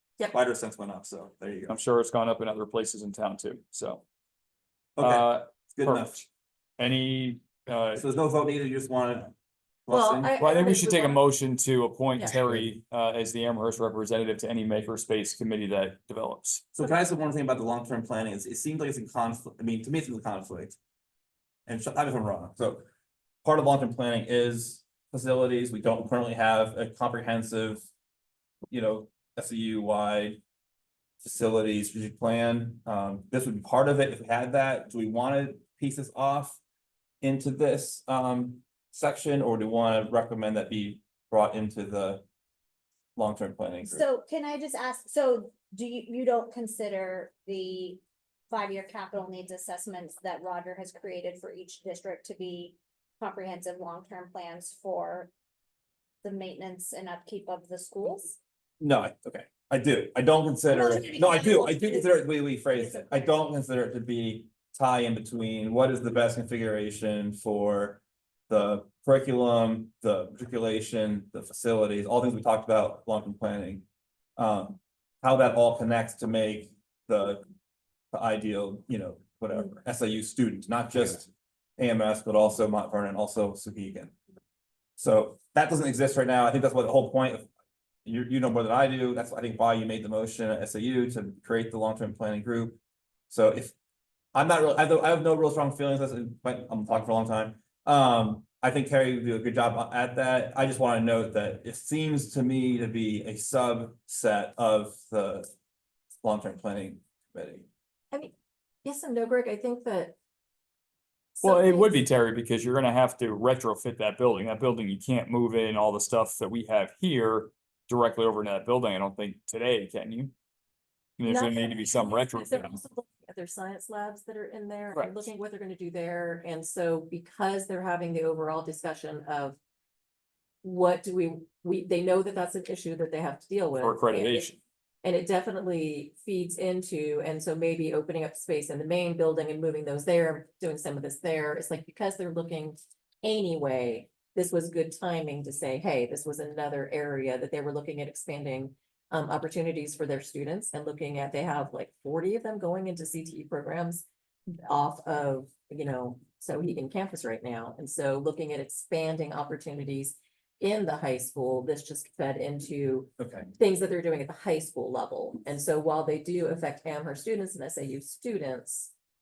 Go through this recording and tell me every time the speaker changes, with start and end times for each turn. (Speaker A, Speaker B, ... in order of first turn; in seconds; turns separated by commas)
Speaker A: 0.3-1.8, Speaker B: 1.7-4.0, Speaker A: 5.0-6.1, Speaker B: 5.0-6.2, Speaker B: 6.8-8.0, Speaker A: 8.0-9.3, Speaker A: 9.9-10.4, Speaker C: 9.9-11.2, Speaker B: 10.4-16.6, Speaker A: 16.7-20.8, Speaker A: 21.7-22.8, Speaker A: 23.4-27.9, Speaker A: 28.7-30.4, Speaker A: 31.2-36.6, Speaker A: 37.2-42.2, Speaker A: 43.1-44.0, Speaker D: 43.9-55.3, Speaker D: 56.2-58.4, Speaker A: 58.8-73.8, Speaker D: 60.7-62.2, Speaker D: 62.7-63.1, Speaker A: 74.4-77.4, Speaker A: 78.1-84.1, Speaker A: 85.0-87.5, Speaker A: 88.0-92.8, Speaker A: 93.3-93.7, Speaker A: 94.3-105.5, Speaker A: 106.2-107.7, Speaker C: 108.8-110.2, Speaker C: 111.4-112.0, Speaker B: 111.4-120.3, Speaker B: 121.2-122.8, Speaker C: 121.2-129.6, Speaker B: 124.9-125.2, Speaker C: 130.6-134.5, Speaker B: 133.8-134.6, Speaker C: 135.0-154.1, Speaker C: 154.7-168.9, Speaker A: 163.2-163.5